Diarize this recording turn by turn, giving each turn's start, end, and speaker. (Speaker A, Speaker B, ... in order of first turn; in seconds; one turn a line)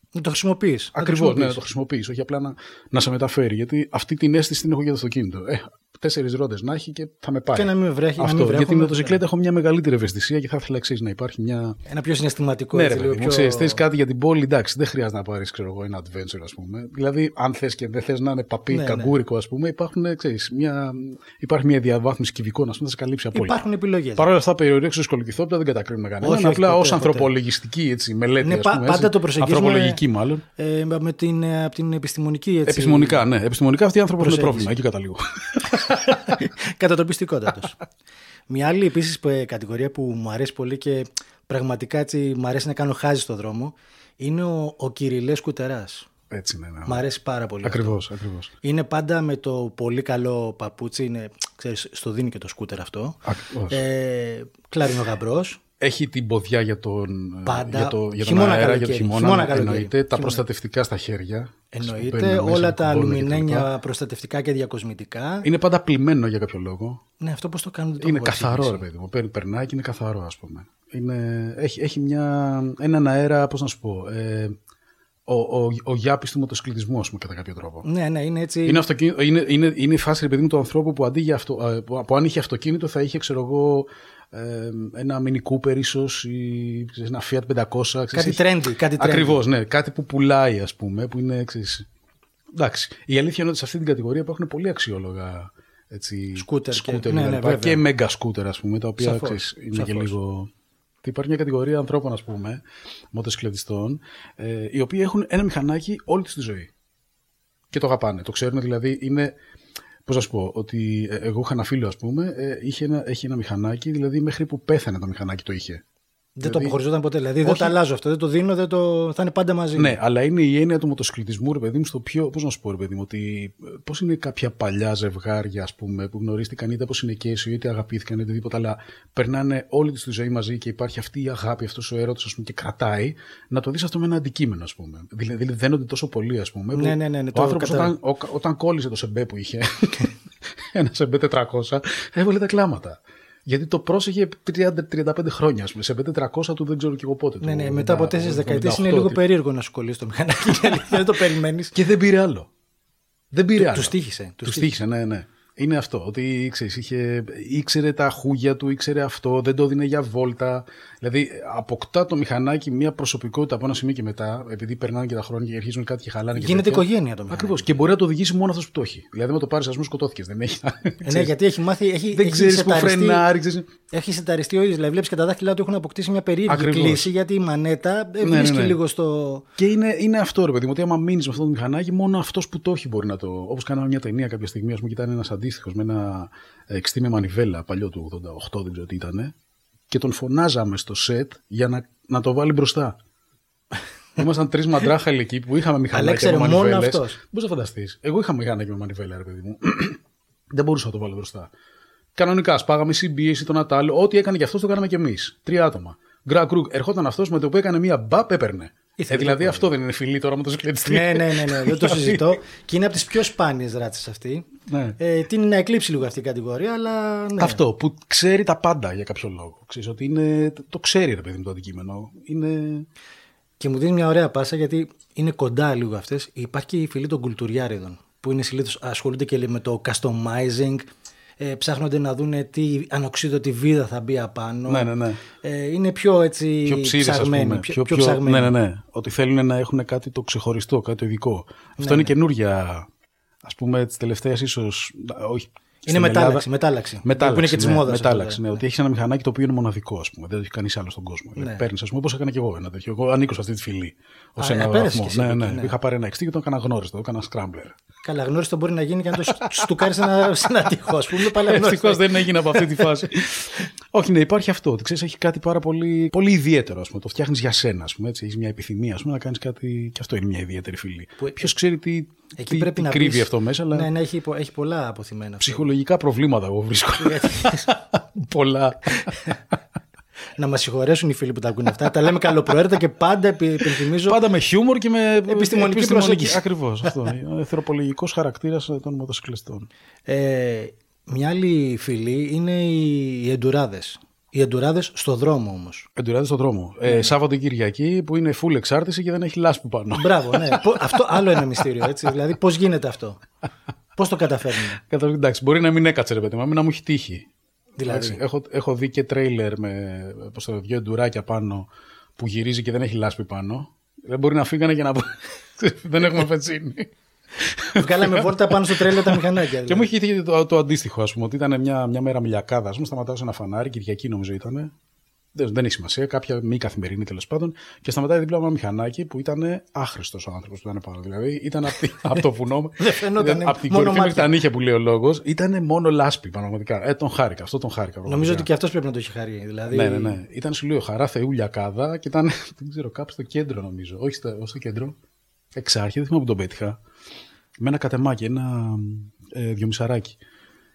Speaker A: 0.1-1.6
Speaker B: 0.9-11.8
Speaker A: 7.5-9.2
Speaker A: 11.9-13.8
Speaker B: 12.7-23.6
Speaker A: 18.7-19.1
Speaker A: 23.3-24.3
Speaker B: 24.2-30.4
Speaker A: 26.2-27.3
Speaker A: 28.4-30.0
Speaker A: 30.6-33.2
Speaker B: 32.7-36.4
Speaker A: 34.2-34.7
Speaker A: 35.9-37.8
Speaker A: 38.5-46.1
Speaker B: 46.3-47.0
Speaker A: 46.9-48.0
Speaker B: 47.6-48.5
Speaker A: 48.6-55.6
Speaker B: 53.2-53.8
Speaker B: 55.8-63.7
Speaker A: 57.5-60.4
Speaker A: 61.7-65.5
Speaker B: 65.4-67.0
Speaker A: 67.2-68.8
Speaker B: 68.0-74.6
Speaker B: 75.3-77.8
Speaker A: 77.8-78.8
Speaker B: 78.7-88.4
Speaker A: 88.1-89.4
Speaker B: 89.0-91.9
Speaker B: 92.5-100.5
Speaker A: 96.3-97.8
Speaker A: 99.0-100.1
Speaker B: 101.0-106.7
Speaker B: 107.7-109.3
Speaker B: 110.1-115.8
Speaker A: 116.4-120.0
Speaker B: 116.4-116.8
Speaker B: 117.4-117.8
Speaker B: 119.8-140.2
Speaker A: 136.7-137.9
Speaker B: 140.7-149.2
Speaker A: 147.4-151.8
Speaker B: 151.7-152.5
Speaker B: 153.3-171.3
Speaker A: 153.6-154.8
Speaker A: 166.3-167.7
Speaker A: 171.0-173.3
Speaker B: 172.1-173.7
Speaker A: 173.9-179.4
Speaker B: 176.5-177.1
Speaker B: 178.2-178.8
Speaker B: 179.6-189.3
Speaker B: 189.9-193.0
Speaker B: 194.2-200.0
Speaker A: 195.9-197.2
Speaker B: 200.5-201.5
Speaker B: 202.2-212.4
Speaker A: 209.0-209.7
Speaker A: 210.8-214.5
Speaker B: 214.7-215.0
Speaker A: 215.0-217.6
Speaker B: 217.4-222.9
Speaker A: 223.6-230.9
Speaker A: 231.4-238.6
Speaker B: 234.7-235.2
Speaker B: 236.7-242.9
Speaker A: 241.8-242.1
Speaker B: 243.4-246.5
Speaker A: 245.9-248.4
Speaker B: 247.0-257.8
Speaker A: 251.4-251.6
Speaker A: 254.4-255.7
Speaker A: 258.0-262.9
Speaker B: 259.3-259.9
Speaker B: 261.2-273.9
Speaker A: 271.2-271.5
Speaker A: 272.4-275.7
Speaker B: 275.4-279.3
Speaker A: 277.0-277.7
Speaker A: 280.4-284.2
Speaker B: 283.8-289.7
Speaker A: 285.3-286.4
Speaker A: 290.1-295.9
Speaker B: 296.0-301.9
Speaker A: 296.9-297.1
Speaker A: 299.9-303.2
Speaker A: 304.0-304.8
Speaker B: 304.8-307.3
Speaker A: 307.8-308.2
Speaker B: 307.8-324.7
Speaker A: 317.8-319.9
Speaker B: 325.4-338.5
Speaker A: 332.8-334.4
Speaker A: 338.1-340.2
Speaker B: 339.7-345.0
Speaker B: 345.6-346.8
Speaker B: 347.6-350.2